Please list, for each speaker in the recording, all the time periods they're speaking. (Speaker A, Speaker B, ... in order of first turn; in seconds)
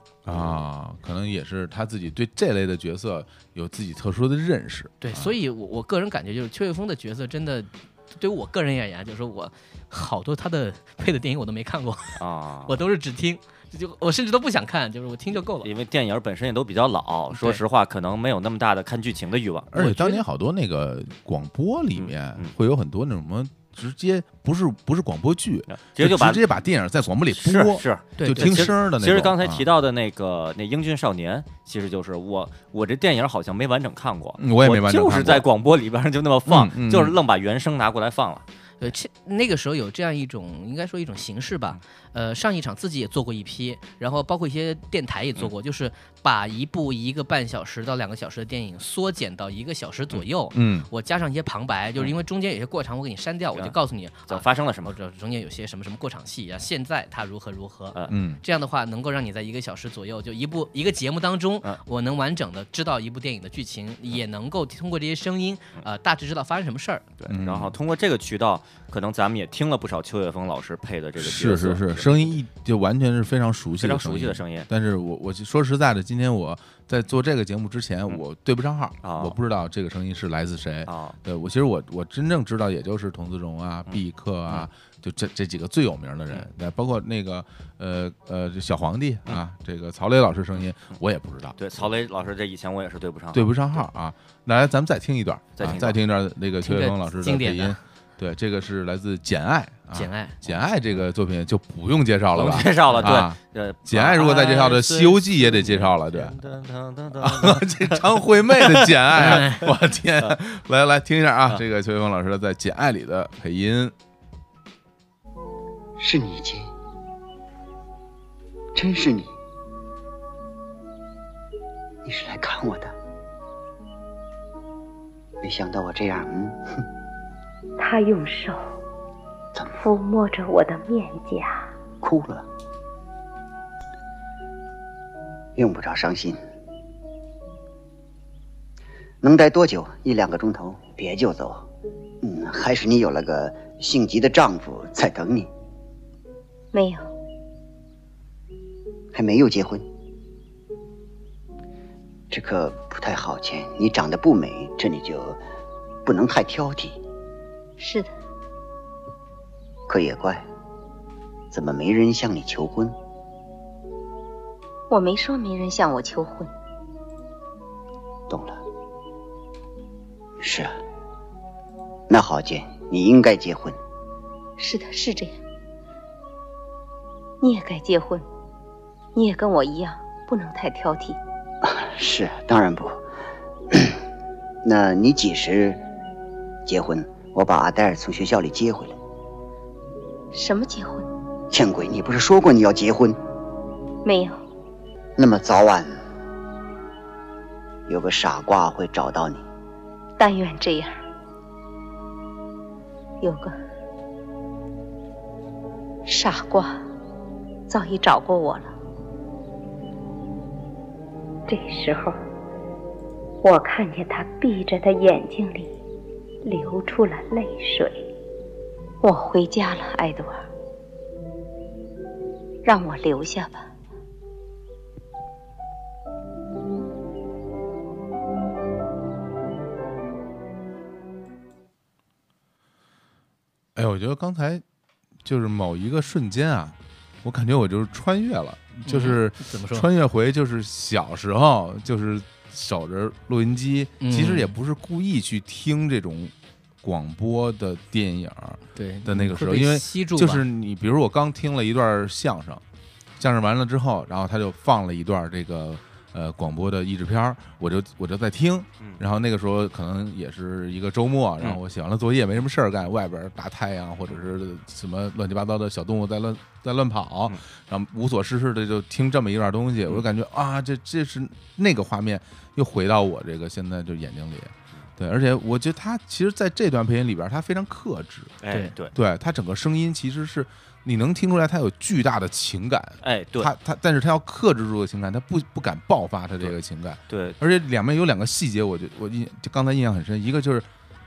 Speaker A: 0.2-5.3, 19.7-29.7, 34.4-35.5, 36.5-37.2, 50.5-50.9, 58.1-58.4, 67.3-67.7, 71.2-91.6, 93.3-106.3, 107.2-113.9, 233.8-234.6, 235.2-252.6, 253.2-278.4, 278.9-290.7
Speaker B: 0.3-0.6, 12.2-12.8, 15.6-19.7, 21.9-22.5, 25.7-26.4, 27.3-38.4, 54.3-54.9, 67.2-72.4, 73.8-74.7, 79.0-79.4, 80.9-81.2, 83.9-84.7, 91.6-93.8, 95.6-96.0, 102.3-109.5, 278.4-278.9, 283.0-283.5, 287.1-287.4
Speaker C: 5.0-15.7, 17.3-17.6, 19.8-20.2, 28.2-28.7, 38.8-67.0, 96.6-97.8, 99.9-100.4, 102.9-103.2, 109.2-109.7, 238.8-239.9, 244.0-244.5, 248.8-250.4
Speaker D: 116.0-116.7, 118.8-119.3, 122.0-122.9, 125.4-126.8, 132.0-132.5, 135.6-136.4, 139.2-141.7, 142.2-145.5, 149.1-149.8, 152.3-155.4, 156.1-157.0, 159.9-160.4, 161.5-162.9, 168.3-168.6, 170.4-170.7, 172.1-173.8, 181.6-183.0, 183.7-184.0, 184.6-185.8, 186.7-189.0, 191.5-193.2, 195.2-195.9, 197.9-199.4
Speaker E: 127.8-128.6, 129.8-131.7, 146.7-147.0, 157.8-158.1, 164.9-166.5, 174.6-175.3, 177.4-178.2, 179.2-181.2, 190.3-191.1, 194.0-194.4, 200.2-200.9, 203.2-203.5, 206.1-206.8, 207.7-208.7, 211.5-212.2, 213.4-215.7, 216.4-218.0, 219.0-220.5, 222.6-223.7